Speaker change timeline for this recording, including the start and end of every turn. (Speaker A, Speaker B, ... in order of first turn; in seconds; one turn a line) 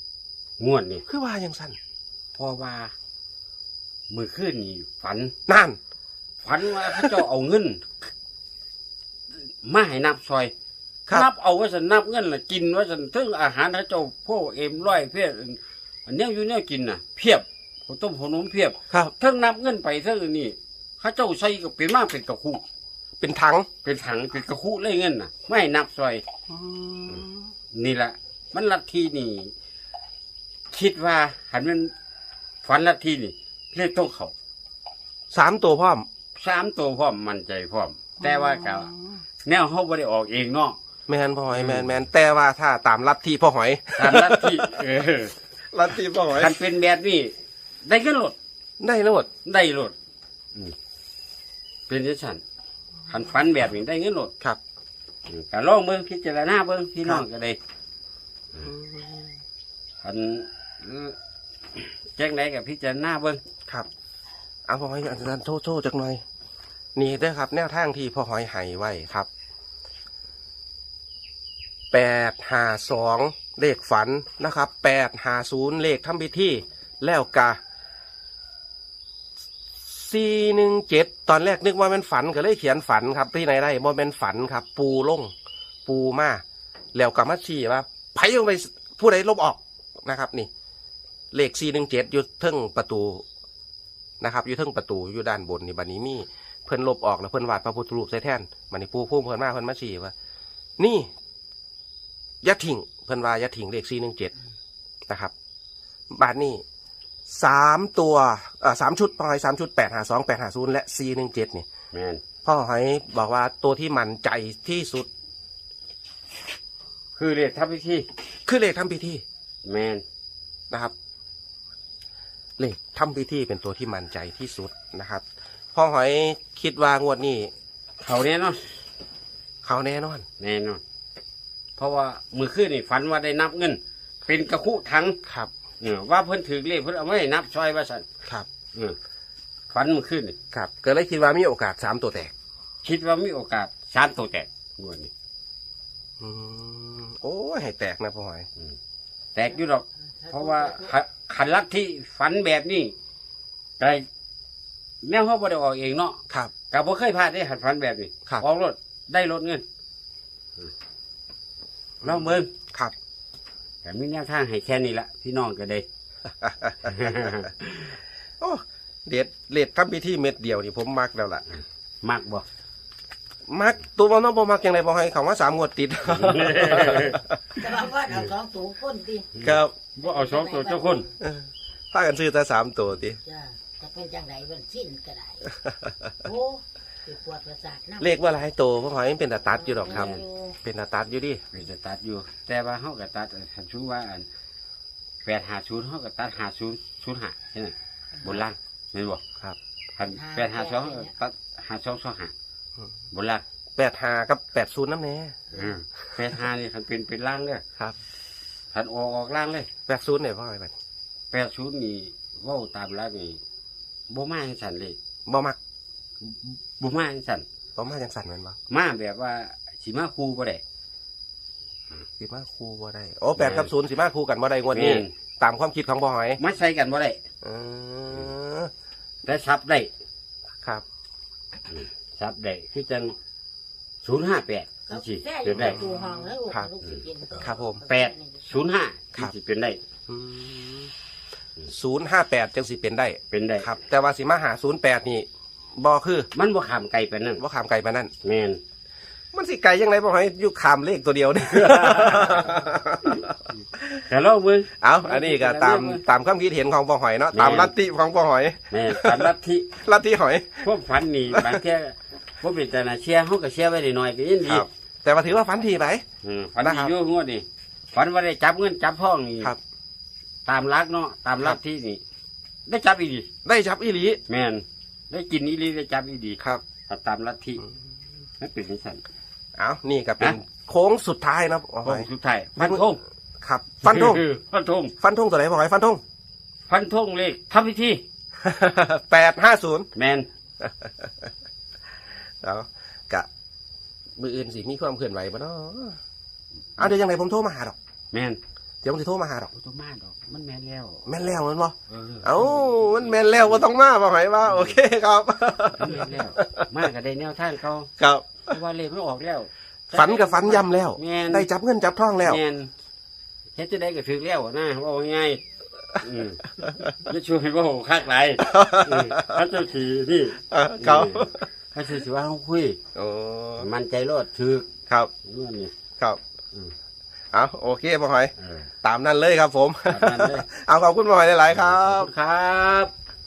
Speaker A: 0.6-1.0
Speaker B: 1.1-1.8
Speaker A: 2.4-2.9
Speaker A: 4.1-5.3
Speaker B: 5.5-5.8
Speaker A: 6.4-7.9
Speaker B: 6.8-7.2
Speaker A: 9.4-10.5
Speaker A: 11.1-22.6
Speaker B: 23.2-23.7
Speaker A: 23.8-26.2
Speaker B: 26.5-27.5
Speaker A: 27.7-29.5
Speaker A: 30.7-31.9
Speaker A: 32.6-34.3
Speaker B: 35.3-36.0
Speaker A: 36.4-38.9
Speaker B: 38.2-39.2
Speaker A: 39.4-40.8
Speaker B: 41.1-44.7
Speaker A: 41.5-42.0
Speaker A: 44.0-45.3
Speaker B: 45.7-46.5
Speaker A: 46.3-47.3
Speaker A: 47.8-48.4
Speaker B: 48.8-49.3
Speaker A: 49.4-49.9
Speaker A: 51.9-52.4
Speaker A: 53.1-54.3
Speaker A: 55.3-57.6
Speaker B: 58.6-59.3
Speaker A: 60.0-61.1
Speaker A: 61.7-63.4
Speaker B: 64.7-66.2
Speaker B: 67.0-69.3
Speaker B: 71.9-77.6
Speaker B: 79.8-85.3
Speaker B: 85.8-86.4
Speaker B: 86.9-90.5
Speaker B: 91.3-93.2
Speaker B: 94.2-100.1
Speaker B: 100.8-101.1
Speaker B: 102.4-104.3
Speaker B: 105.1-105.3
Speaker B: 106.1-106.6
Speaker B: 107.3-111.7
Speaker A: 111.9-112.2
Speaker B: 112.4-115.1
Speaker A: 117.2-118.1
Speaker B: 118.5-119.2
Speaker A: 119.6-120.0
Speaker B: 122.6-127.5
Speaker A: 128.0-128.7
Speaker B: 129.6-130.2
Speaker A: 130.4-130.8
Speaker A: 131.8-135.2
Speaker A: 135.8-138.1
Speaker A: 139.7-140.4
Speaker B: 140.5-142.3
Speaker A: 142.8-145.1
Speaker B: 146.2-148.5
Speaker A: 149.3-152.9
Speaker C: 150.2-150.9
Speaker A: 153.8-154.1
Speaker A: 155.0-159.6
Speaker B: 162.0-162.9
Speaker A: 162.0-162.5
Speaker A: 163.8-165.8
Speaker B: 166.4-167.4
Speaker A: 166.8-167.9
Speaker B: 168.4-171.4
Speaker A: 172.0-172.4
Speaker B: 173.5-177.5
Speaker A: 176.1-177.2
Speaker C: 177.6-179.3
Speaker A: 179.3-181.1
Speaker B: 179.4-179.7
Speaker C: 180.1-181.1
Speaker B: 181.2-183.2
Speaker C: 183.2-185.5
Speaker B: 185.6-186.1
Speaker C: 186.2-188.1
Speaker B: 188.0-191.4
Speaker C: 189.6-190.6
Speaker A: 189.9-190.2
Speaker A: 191.5-194.3
Speaker A: 195.2-199.2
Speaker A: 199.9-202.3
Speaker C: 200.2-201.1
Speaker A: 203.1-203.4
Speaker B: 203.8-205.4
Speaker A: 205.5-207.6
Speaker A: 208.7-209.7
Speaker B: 209.9-210.7
Speaker A: 211.3-213.4
Speaker A: 214.1-215.0
Speaker B: 215.2-215.6
Speaker A: 216.2-217.4
Speaker B: 217.8-218.6
Speaker A: 218.7-220.6
Speaker B: 222.2-226.4
Speaker A: 223.4-223.7
Speaker A: 224.7-225.1
Speaker A: 226.4-227.2
Speaker B: 227.4-228.7
Speaker A: 229.2-229.9
Speaker A: 231.7-233.1
Speaker A: 234.0-235.8
Speaker C: 234.9-238.4
Speaker B: 235.4-236.7
Speaker B: 237.4-237.8
Speaker A: 237.8-239.8
Speaker B: 240.1-240.9
Speaker B: 241.7-246.3
Speaker A: 243.3-243.7
Speaker A: 246.3-247.4
Speaker B: 247.4-248.1
Speaker A: 248.2-248.6
Speaker B: 249.3-254.0
Speaker A: 251.4-252.6
Speaker A: 254.1-256.0
Speaker B: 254.8-260.7
Speaker A: 257.3-257.7
Speaker A: 258.7-259.7
Speaker A: 260.6-264.7
Speaker B: 261.3-261.6
Speaker B: 264.5-266.0
Speaker A: 266.2-269.5
Speaker B: 266.6-266.9
Speaker A: 270.4-272.0
Speaker A: 272.7-273.3
Speaker B: 273.4-274.2
Speaker A: 274.3-277.6
Speaker A: 278.4-279.0
Speaker B: 279.6-282.8
Speaker A: 281.8-283.0
Speaker B: 283.4-284.2
Speaker A: 283.8-284.9
Speaker B: 285.0-286.0
Speaker A: 286.7-288.0
Speaker B: 288.4-289.9
Speaker A: 289.9-290.3
Speaker B: 290.6-291.3
Speaker B: 292.4-293.3
Speaker B: 294.2-296.0
Speaker B: 296.8-297.8
Speaker A: 298.1-298.4
Speaker B: 298.8-299.5
Speaker A: 299.5-301.1
Speaker B: 301.1-306.7
Speaker A: 301.9-303.6
Speaker A: 304.4-304.8
Speaker A: 305.8-307.9
Speaker B: 308.0-308.4
Speaker A: 308.5-311.5
Speaker B: 309.9-312.4
Speaker A: 312.2-312.7
Speaker A: 313.6-315.4
Speaker A: 316.0-322.8
Speaker B: 316.6-316.9
Speaker B: 318.4-319.4
Speaker B: 320.5-321.4
Speaker B: 322.9-323.7
Speaker A: 323.6-324.7
Speaker A: 325.2-325.7
Speaker B: 327.3-328.3
Speaker A: 328.4-328.7
Speaker B: 328.8-332.1
Speaker A: 329.9-330.4
Speaker A: 331.5-332.9